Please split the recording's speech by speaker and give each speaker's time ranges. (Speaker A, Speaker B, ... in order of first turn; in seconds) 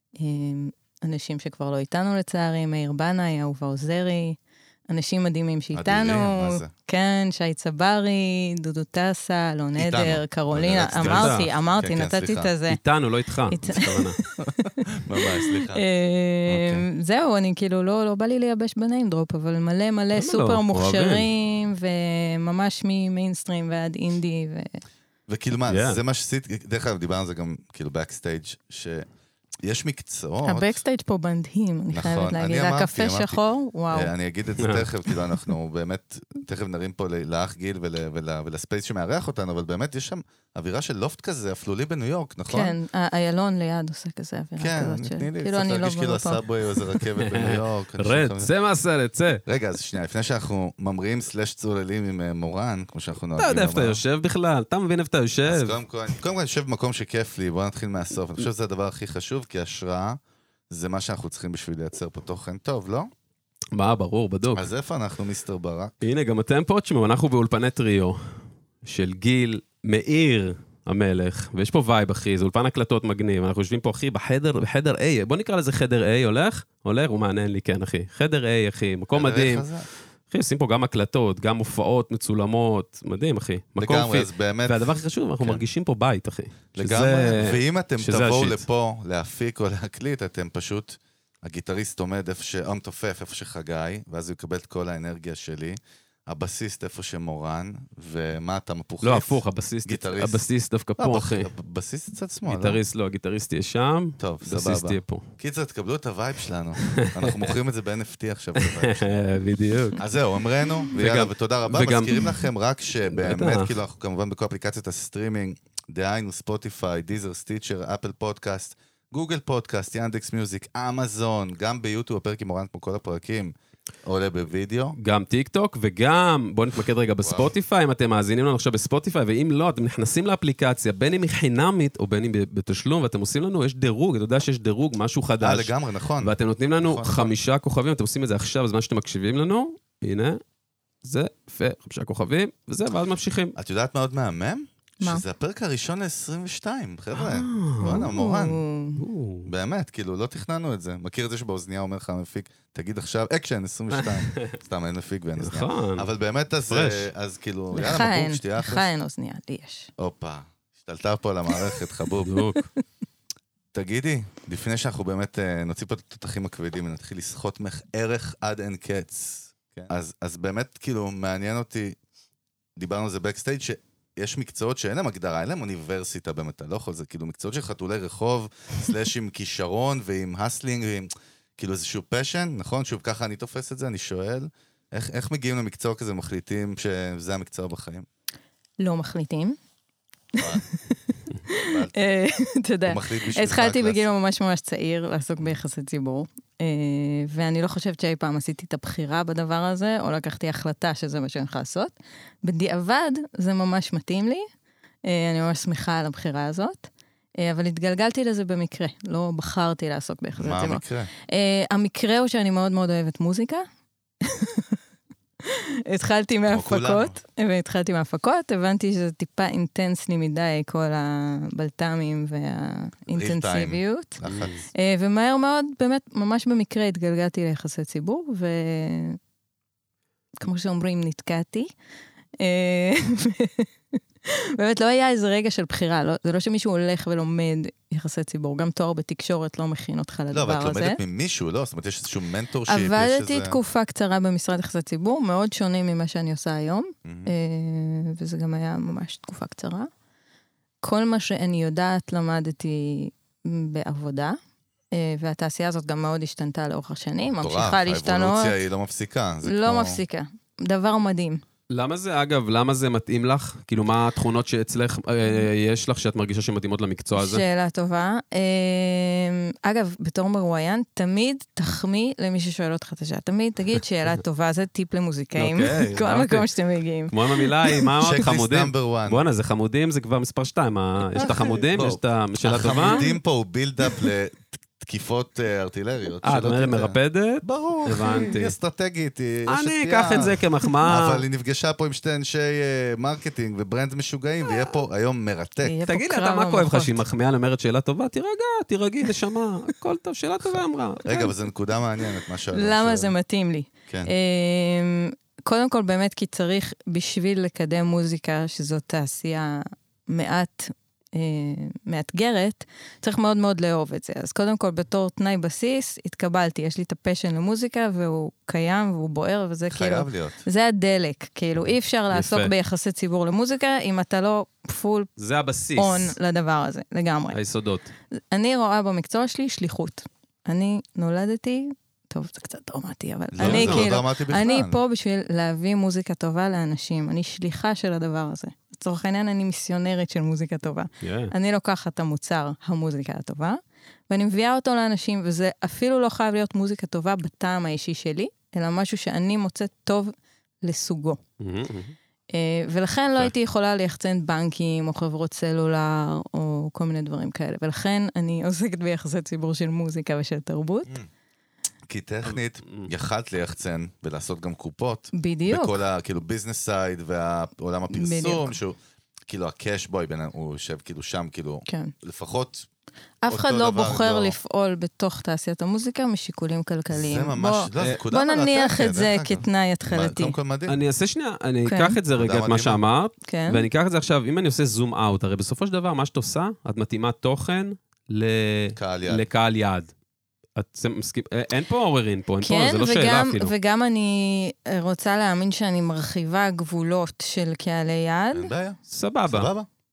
Speaker A: 0.2-4.4, 4.9-12.8, 13.5-24.8, 30.4-34.1, 42.5-47.0, 148.1-149.0, 157.7-159.9, 188.8-189.6, 190.3-204.4, 205.0-213.6, 214.2-214.8, 215.4-224.2, 224.7-229.2, 230.4-231.7, 232.4-233.7, 234.3-241.0, 242.7-249.9, 250.8-254.4, 254.9-258.6, 259.4-261.4, 267.1-277.9, 281.2-281.6, 282.8-283.1, 288.0-288.3, 295.6-297.1, 302.5-325.1, 325.8-327.4, 328.1-351.2, 352.3-360.9, 365.1-365.8, 367.9-368.6, 371.7-371.9, 373.2-380.4, 381.6-382.0, 383.3-383.6, 392.4-398.5
Speaker B: 5.7-6.7, 9.8-12.5, 14.5-15.8, 16.5-16.9, 25.3-29.1, 29.6-30.8, 31.9-33.4, 33.9-42.8, 44.6-48.5, 49.5-54.0, 55.4-63.1, 64.5-66.0, 79.1-79.9, 83.8-84.8, 85.4-85.6, 86.7-100.4, 101.0-102.8, 104.2-109.1, 110.0-123.5, 124.0-125.0, 127.2-127.5, 135.4-137.3, 143.6-148.6, 149.4-158.9, 160.0-162.4, 163.7-172.0, 172.8-188.1, 190.4-190.6, 191.5-191.9, 192.9-194.1, 210.4-211.1, 216.5-217.2, 223.1-224.5, 240.3-243.6, 247.0-247.3, 257.4-260.0, 278.0-279.2, 281.2-295.8, 300.4-303.1, 319.7-320.4, 333.3-334.8, 361.9-372.7, 373.3-374.4, 376.9-380.8, 382.2-382.8, 388.8-389.2, 398.3-399.7
Speaker C: 10.9-11.5, 12.7-14.2, 20.1-21.3, 25.7-26.0, 34.6-34.9, 47.2-49.4, 53.4-55.8, 63.7-64.7, 66.0-79.7, 80.3-88.6, 99.0-101.5, 102.5-105.3, 106.8-107.5, 108.6-110.0, 110.9-112.4, 113.1-113.7, 125.0-140.4, 141.0-143.5, 147.1-148.1, 149.0-149.5, 153.9-154.6, 155.4-156.1, 156.7-157.1, 162.2-162.7, 224.2-224.6, 261.7-267.4, 275.4-276.5, 277.1-283.0, 286.2-288.5, 289.5-291.2, 294.4-294.8, 295.9-301.3, 322.1-322.5, 325.2-326.1, 327.3-327.9, 333.4-333.9, 341.0-341.3, 351.4-351.9, 362.3-362.9, 377.8-378.0, 380.7-389.9, 390.5-393.5, 398.9-399.5